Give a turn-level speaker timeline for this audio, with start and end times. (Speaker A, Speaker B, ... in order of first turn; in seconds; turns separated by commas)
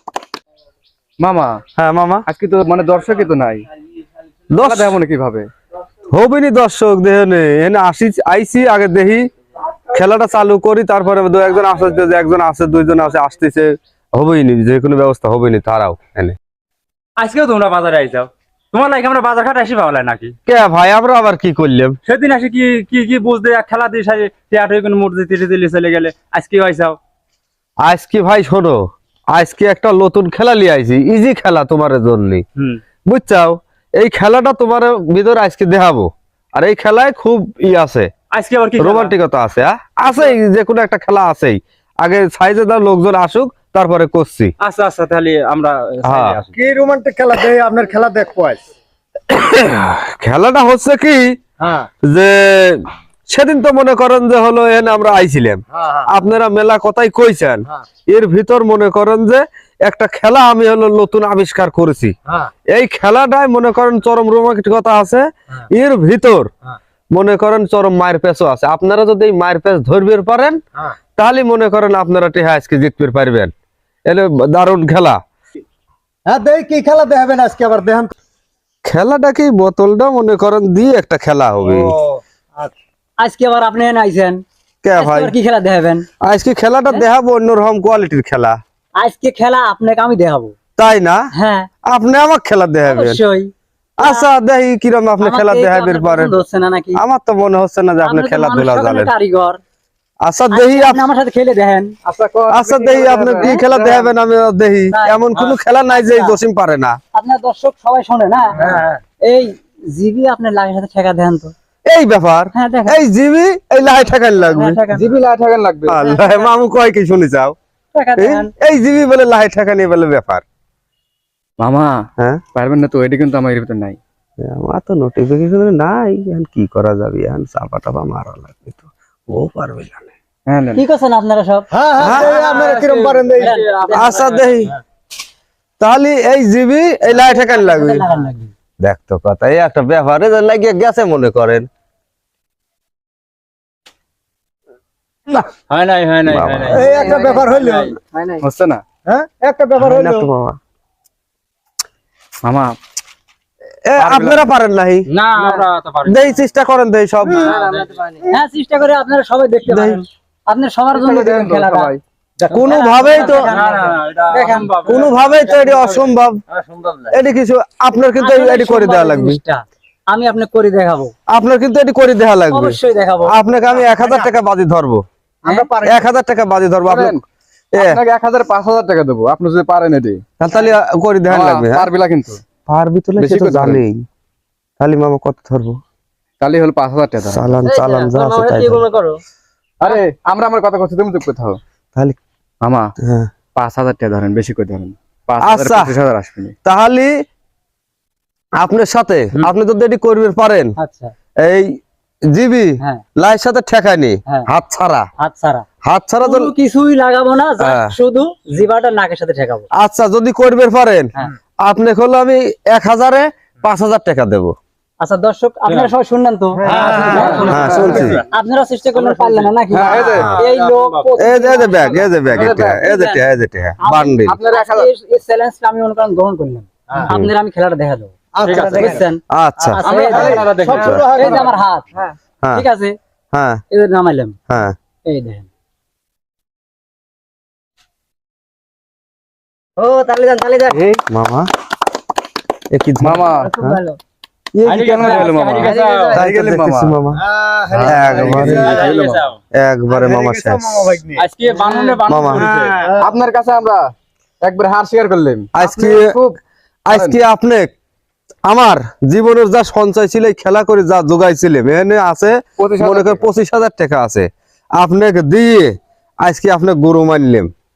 Speaker A: 1.2-1.5, Speaker B: 1.8-2.2, Speaker A: 2.3-3.6, Speaker B: 4.5-5.0, Speaker A: 4.6-5.4, Speaker B: 6.1-9.3, Speaker B: 9.9-16.4, Speaker C: 17.2-20.4, Speaker B: 20.5-22.0, Speaker C: 22.1-27.0, Speaker B: 27.8-28.8, Speaker B: 29.3-32.4, Speaker B: 33.1-38.1, Speaker C: 38.3-39.1, Speaker B: 38.8-44.5, Speaker C: 44.6-46.5, Speaker B: 46.0-46.4, Speaker D: 46.6-48.6, Speaker B: 49.3-51.3, Speaker D: 51.6-51.9, Speaker B: 52.0-62.1, Speaker B: 62.7-66.5, Speaker B: 67.1-70.6, Speaker B: 71.2-73.5, Speaker B: 74.0-75.2, Speaker D: 76.3-78.1, Speaker B: 78.8-81.9, Speaker D: 81.6-82.7, Speaker E: 83.2-84.4, Speaker B: 84.8-85.3, Speaker E: 85.0-86.0, Speaker B: 86.2-88.6, Speaker E: 89.0-90.5, Speaker B: 90.8-91.2, Speaker E: 91.3-91.7, Speaker B: 91.8-93.2, Speaker E: 92.8-94.3, Speaker B: 94.0-96.4, Speaker E: 95.2-97.0, Speaker B: 97.0-99.1, Speaker E: 98.0-99.6, Speaker B: 100.2-101.0, Speaker E: 100.5-101.9, Speaker A: 102.1-104.0, Speaker B: 102.5-107.0, Speaker E: 104.9-106.4, Speaker E: 107.1-111.5, Speaker B: 111.8-114.8, Speaker E: 112.5-113.0, Speaker E: 114.5-115.1, Speaker A: 115.0-115.9, Speaker B: 115.9-117.5, Speaker E: 116.0-116.5, Speaker E: 117.9-118.5, Speaker B: 118.2-120.4, Speaker A: 121.6-121.9, Speaker A: 122.5-124.0, Speaker B: 124.4-130.1, Speaker A: 130.5-130.8, Speaker E: 130.7-131.7, Speaker D: 131.7-133.6, Speaker B: 132.0-132.5, Speaker C: 132.1-134.7, Speaker E: 133.3-134.3, Speaker B: 133.9-134.7, Speaker B: 135.8-138.0, Speaker E: 137.1-138.5, Speaker B: 138.8-141.7, Speaker C: 145.7-147.9, Speaker B: 146.2-146.9, Speaker D: 146.7-148.0, Speaker F: 146.9-147.4, Speaker F: 148.1-148.4, Speaker A: 148.4-148.8, Speaker D: 149.1-150.3, Speaker B: 149.8-150.6, Speaker A: 152.4-152.7, Speaker B: 153.8-155.1, Speaker A: 154.0-154.4, Speaker C: 155.1-156.4, Speaker B: 156.1-157.6, Speaker D: 157.3-157.6, Speaker C: 157.4-158.0, Speaker F: 157.6-158.3, Speaker E: 158.3-165.0, Speaker B: 159.7-160.0, Speaker A: 161.0-162.0, Speaker B: 162.5-163.5, Speaker C: 163.3-165.8, Speaker B: 164.8-166.4, Speaker B: 167.1-169.4, Speaker E: 168.2-171.1, Speaker B: 171.3-175.0, Speaker E: 172.5-173.3, Speaker D: 174.0-174.2, Speaker D: 175.4-176.1, Speaker B: 175.8-177.2, Speaker A: 176.9-177.2, Speaker B: 177.7-178.0, Speaker A: 177.8-180.2, Speaker B: 180.4-181.9, Speaker A: 181.3-182.4, Speaker B: 182.7-184.0, Speaker A: 183.2-183.8, Speaker B: 184.8-185.8, Speaker A: 186.4-187.5, Speaker B: 187.2-188.8, Speaker F: 187.6-189.2, Speaker A: 189.8-191.6, Speaker A: 192.6-192.9, Speaker B: 193.0-193.3, Speaker A: 193.6-196.5, Speaker B: 195.4-195.9, Speaker B: 196.6-197.1, Speaker B: 198.6-200.7, Speaker E: 200.8-201.1, Speaker B: 201.4-201.7, Speaker B: 202.3-205.1, Speaker E: 205.2-205.6, Speaker B: 205.8-206.5, Speaker E: 206.2-209.7, Speaker B: 207.6-207.9, Speaker B: 209.7-211.1, Speaker B: 211.6-214.5, Speaker E: 215.0-223.2, Speaker D: 216.6-217.4, Speaker C: 216.6-218.2, Speaker A: 217.4-217.8, Speaker B: 217.5-218.2, Speaker C: 218.9-221.1, Speaker A: 219.8-220.2, Speaker B: 221.2-224.4, Speaker A: 222.4-222.7, Speaker E: 223.8-228.1, Speaker A: 224.3-224.8, Speaker D: 228.3-229.0, Speaker C: 228.4-229.0, Speaker E: 228.7-229.2, Speaker B: 229.3-229.8, Speaker E: 229.7-231.9, Speaker C: 229.8-231.3, Speaker D: 229.9-231.5, Speaker B: 230.7-231.0, Speaker E: 232.5-232.9, Speaker B: 233.3-233.6, Speaker E: 233.7-234.4, Speaker B: 234.5-234.7, Speaker E: 235.1-235.5, Speaker F: 239.8-240.8, Speaker B: 241.1-241.5, Speaker B: 242.7-243.8, Speaker A: 243.0-243.5, Speaker F: 243.4-244.0, Speaker C: 244.6-246.2, Speaker A: 244.6-246.9, Speaker F: 245.6-246.2, Speaker B: 246.1-247.2, Speaker D: 247.2-249.0, Speaker A: 247.7-249.1, Speaker B: 247.8-248.7, Speaker C: 248.5-249.4, Speaker B: 249.5-250.7, Speaker D: 249.9-251.8, Speaker C: 251.2-252.8, Speaker B: 252.1-252.5, Speaker D: 252.3-253.1, Speaker A: 253.0-253.9, Speaker A: 254.4-256.4, Speaker B: 255.5-256.2, Speaker B: 256.9-257.7, Speaker B: 258.5-267.5, Speaker A: 262.6-263.2